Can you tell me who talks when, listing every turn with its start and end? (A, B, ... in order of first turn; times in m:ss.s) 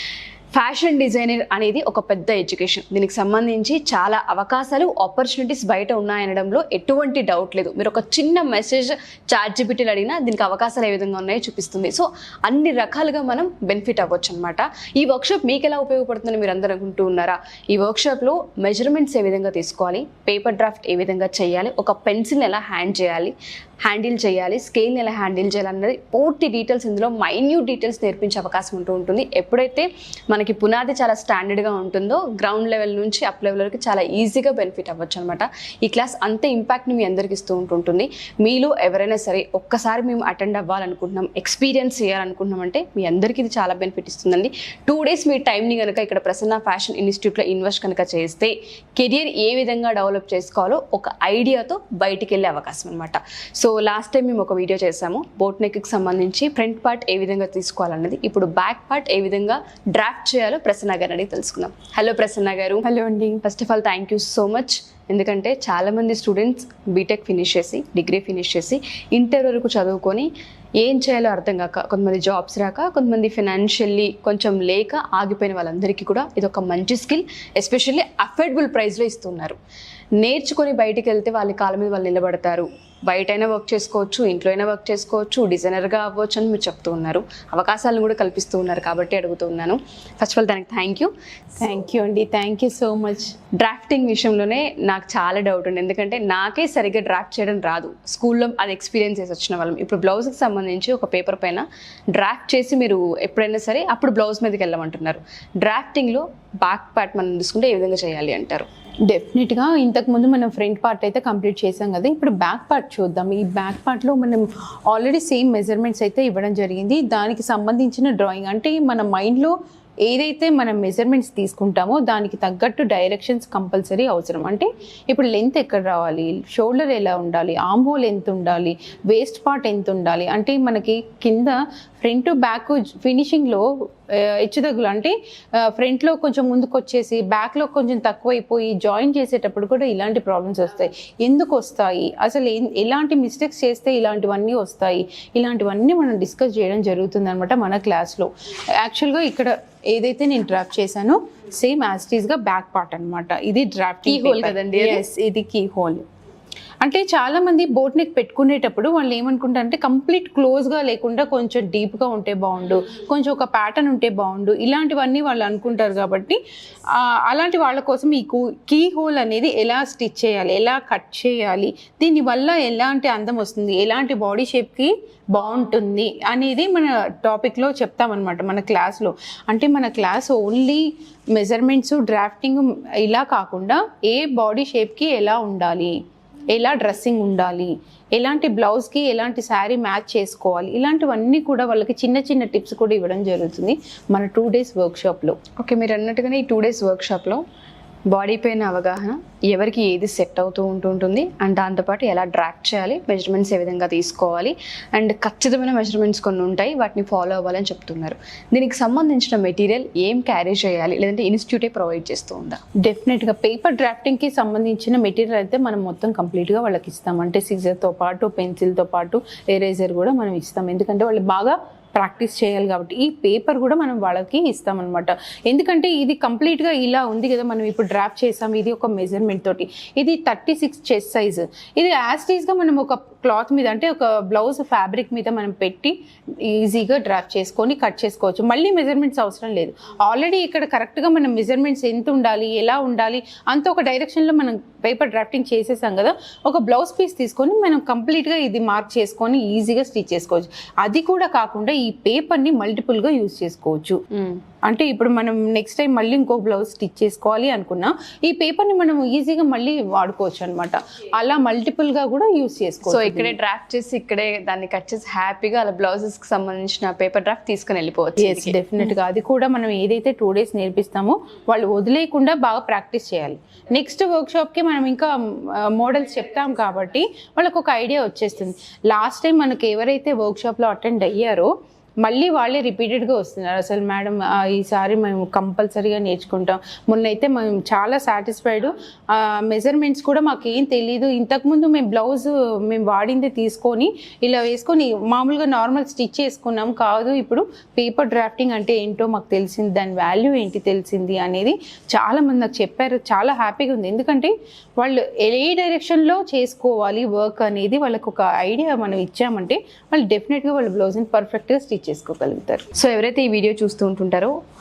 0:00.5-1:10.3 A
1:03.0-1:03.4 B
1:10.8-1:19.6 A
1:20.2-1:31.1 A
1:31.6-1:33.3 B
1:33.6-1:48.7 A
1:49.1-1:59.5 B
2:00.0-2:13.6 B
2:14.2-2:15.1 B
2:15.6-2:28.3 B
2:28.8-2:36.0 B
2:34.0-2:35.0 A
2:36.8-2:46.4 B
2:46.9-3:06.0 B
3:06.5-3:15.4 B
3:15.6-3:17.4 A
3:18.1-3:32.6 A
3:32.8-4:14.0 B
4:14.1-4:14.4 A
4:14.7-4:23.4 B
4:22.8-4:28.6 A
4:28.2-4:41.5 B
4:42.0-5:12.6 B
5:12.7-5:14.3 A